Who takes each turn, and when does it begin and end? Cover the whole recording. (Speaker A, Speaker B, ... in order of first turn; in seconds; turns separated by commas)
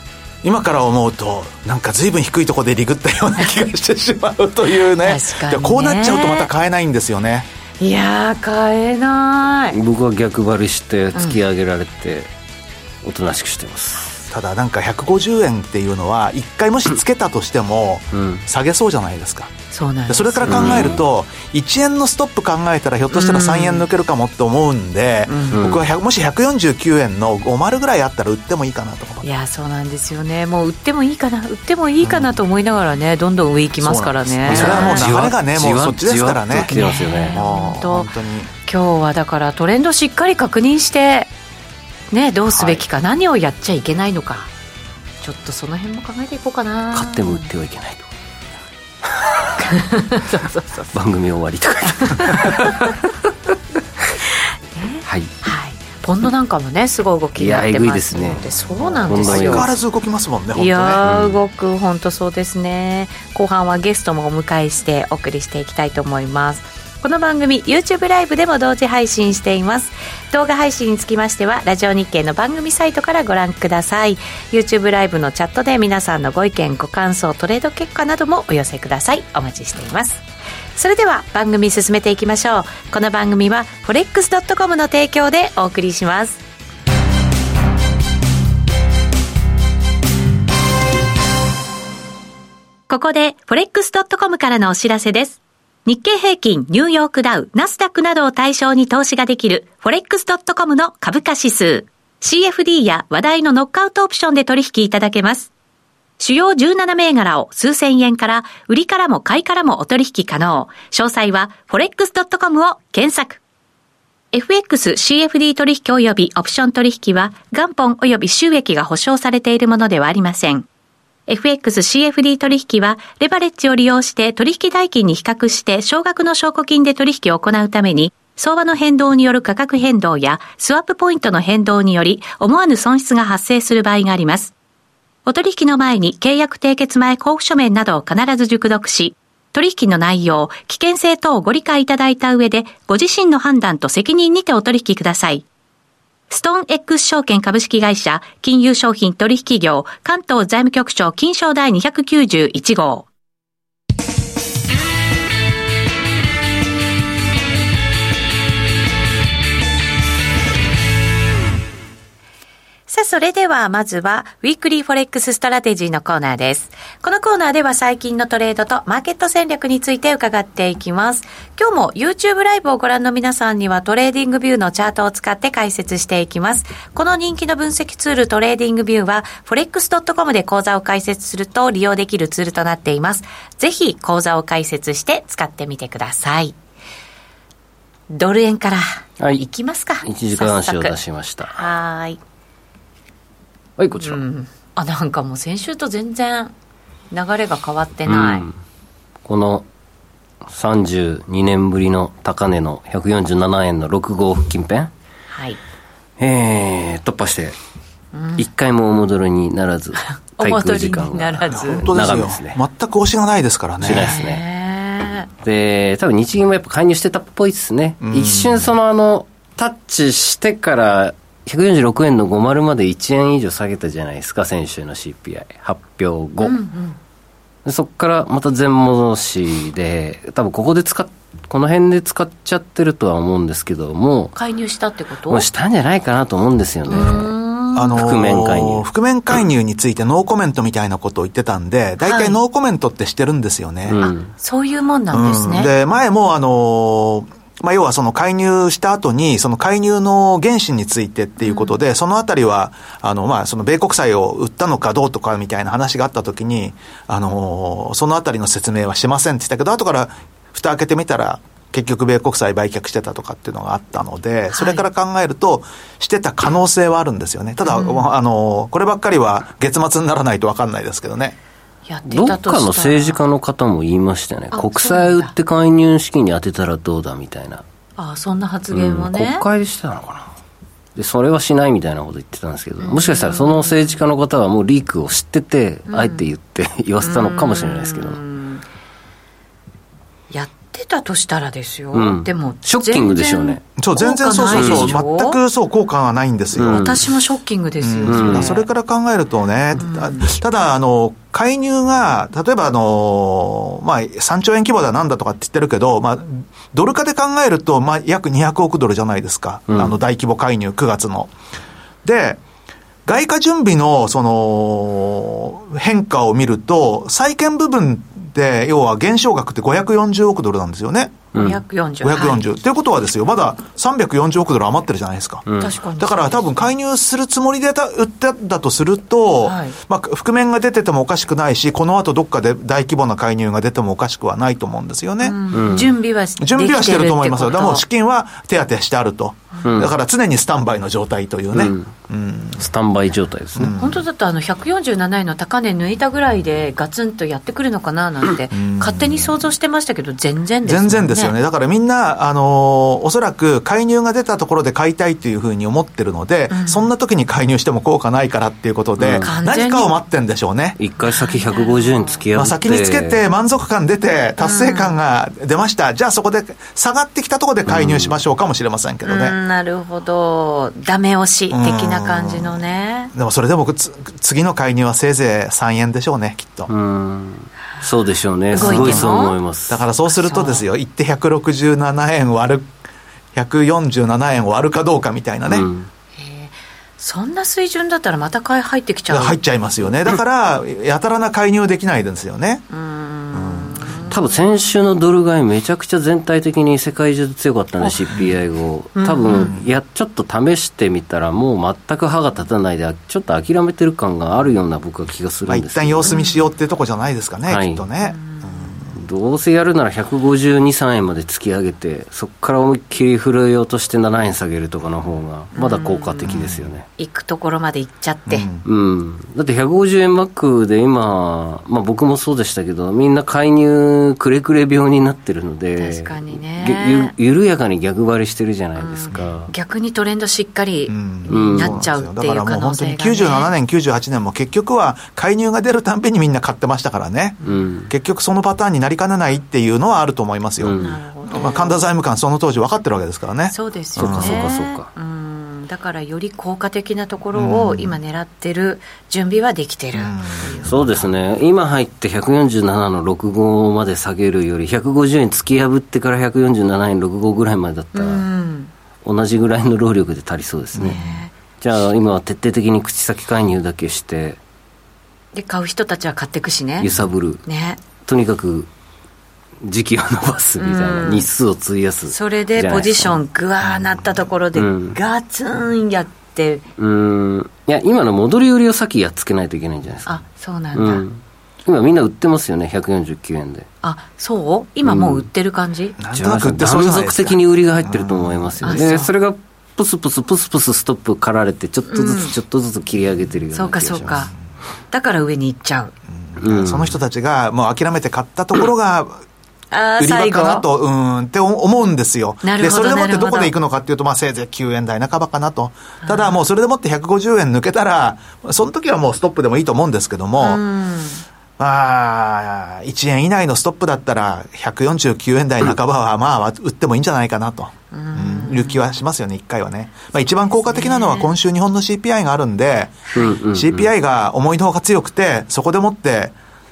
Speaker A: 0.4-7.5, Speaker B: 5.0-6.5, Speaker B: 7.8-9.8, Speaker C: 9.7-12.3, Speaker B: 11.1-11.4, Speaker C: 13.0-14.2, Speaker A: 14.3-29.2, Speaker C: 18.1-18.4, Speaker B: 19.7-20.9, Speaker C: 20.4-21.0, Speaker B: 23.1-23.9, Speaker B: 25.3-25.6, Speaker C: 25.5-25.8, Speaker B: 29.2-35.1, Speaker A: 32.0-32.4, Speaker A: 33.8-36.8, Speaker C: 34.4-37.4, Speaker B: 36.7-38.1, Speaker A: 37.3-38.5, Speaker B: 38.6-41.3, Speaker B: 42.1-44.5, Speaker A: 42.5-42.8, Speaker B: 45.2-47.5, Speaker C: 46.9-48.1, Speaker C: 49.1-49.7, Speaker B: 49.7-50.2, Speaker C: 50.2-53.0, Speaker B: 52.1-52.9, Speaker B: 54.7-59.7, Speaker C: 55.0-55.3, Speaker C: 57.4-58.4, Speaker A: 58.7-61.0, Speaker C: 59.0-59.7, Speaker B: 60.5-80.2, Speaker C: 61.0-61.4, Speaker B: 80.8-86.4, Speaker B: 92.9-105.5, Speaker B: 106.2-113.4, Speaker B: 114.3-120.7, Speaker B: 121.3-134.5, Speaker B: 135.2-145.4, Speaker B: 146.3-153.1, Speaker B: 162.9-186.6, Speaker B: 188.1-192.2, Speaker C: 189.2-189.4, Speaker C: 190.0-191.6, Speaker C: 193.8-194.2, Speaker B: 194.0-196.5, Speaker B: 197.1-198.4, Speaker C: 198.1-198.5, Speaker C: 199.2-199.7, Speaker C: 200.4-204.9, Speaker B: 205.3-205.6, Speaker C: 206.2-207.6, Speaker B: 208.1-208.5, Speaker C: 208.4-212.6, Speaker B: 210.4-211.9, Speaker A: 211.5-214.1, Speaker C: 213.8-214.4, Speaker B: 214.0-215.3, Speaker C: 215.4-226.6, Speaker A: 218.0-218.7, Speaker B: 226.4-227.0, Speaker C: 227.6-234.3, Speaker B: 234.3-235.5, Speaker C: 235.3-237.3, Speaker B: 236.9-238.0, Speaker A: 236.9-244.0, Speaker C: 237.9-238.9, Speaker B: 242.0-242.4, Speaker C: 243.9-244.3, Speaker B: 244.0-245.7, Speaker A: 245.1-271.4, Speaker B: 251.4-251.7, Speaker B: 264.5-264.9, Speaker B: 267.6-268.0, Speaker B: 271.9-273.2, Speaker C: 272.1-277.6, Speaker B: 274.5-275.3, Speaker B: 278.0-279.4, Speaker C: 278.7-280.3, Speaker C: 280.9-288.2, Speaker B: 282.8-283.9, Speaker B: 285.9-286.2, Speaker B: 287.0-288.6, Speaker B: 290.3-295.4, Speaker C: 291.9-293.6, Speaker A: 293.8-297.0, Speaker C: 294.5-295.0, Speaker C: 296.5-297.0, Speaker B: 296.7-298.6, Speaker A: 297.8-311.3, Speaker C: 298.0-298.5, Speaker B: 299.8-300.3, Speaker C: 309.7-309.9, Speaker A: 312.0-312.4, Speaker A: 313.1-321.4, Speaker C: 321.3-321.6, Speaker B: 321.3-322.4, Speaker A: 322.0-325.4, Speaker C: 325.4-325.7, Speaker B: 325.6-326.7, Speaker A: 326.0-335.4, Speaker B: 329.4-329.8, Speaker B: 335.2-337.8, Speaker C: 335.5-335.9, Speaker A: 336.4-342.7, Speaker C: 339.6-339.9, Speaker C: 341.5-341.9, Speaker C: 342.6-343.7, Speaker A: 343.6-344.0, Speaker B: 343.8-351.3, Speaker A: 348.5-349.5, Speaker A: 350.6-360.8, Speaker B: 356.5-356.9, Speaker C: 359.0-359.3, Speaker B: 359.2-359.9, Speaker C: 360.8-363.2, Speaker B: 361.0-362.2, Speaker A: 362.3-369.4, Speaker B: 364.4-365.0, Speaker C: 367.6-368.2, Speaker B: 369.0-373.1, Speaker A: 371.5-372.6, Speaker A: 373.1-376.7, Speaker C: 376.7-379.8, Speaker A: 378.5-379.2, Speaker B: 378.5-379.3, Speaker A: 379.7-382.7, Speaker B: 380.1-380.6, Speaker A: 383.3-385.7, Speaker C: 385.5-385.9, Speaker B: 386.1-389.4, Speaker A: 389.1-392.6, Speaker B: 392.7-394.4, Speaker A: 393.3-393.9, Speaker C: 394.1-406.1, Speaker B: 398.9-399.5, Speaker A: 399.3-399.7, Speaker A: 405.5-408.9, Speaker B: 406.1-406.3, Speaker C: 407.5-407.8, Speaker B: 408.0-408.9, Speaker C: 408.9-416.8, Speaker B: 415.5-416.4, Speaker A: 416.2-416.8, Speaker B: 417.0-418.5, Speaker A: 418.3-418.6, Speaker C: 418.6-429.5, Speaker B: 425.8-427.1, Speaker B: 428.8-433.5, Speaker A: 430.9-444.5, Speaker C: 431.3-431.8, Speaker B: 437.4-437.7, Speaker C: 437.4-437.9, Speaker C: 440.6-440.9, Speaker B: 440.8-441.8, Speaker B: 443.5-450.7, Speaker C: 444.0-444.9, Speaker A: 447.3-448.0, Speaker A: 450.0-451.0, Speaker C: 450.6-458.3, Speaker B: 457.9-458.7, Speaker C: 459.0-464.4, Speaker B: 460.7-461.3, Speaker B: 465.3-466.9, Speaker C: 466.8-467.4, Speaker B: 467.4-467.8, Speaker C: 468.0-468.7, Speaker C: 469.6-473.2, Speaker B: 470.6-471.3, Speaker B: 472.1-476.6, Speaker C: 474.5-475.0, Speaker C: 476.8-483.7, Speaker B: 480.1-481.0, Speaker B: 483.8-486.0, Speaker C: 484.8-485.3, Speaker A: 486.0-488.7, Speaker C: 486.1-494.3, Speaker B: 488.6-489.1, Speaker B: 491.9-492.3, Speaker B: 493.5-494.3, Speaker B: 494.9-495.9, Speaker A: 496.1-499.2, Speaker C: 496.4-497.0, Speaker B: 499.7-500.6, Speaker A: 500.0-510.6, Speaker B: 502.4-503.5, Speaker B: 506.0-506.3, Speaker B: 510.4-511.2, Speaker A: 511.6-526.3, Speaker B: 517.9-518.8, Speaker B: 520.7-521.3, Speaker C: 523.2-523.9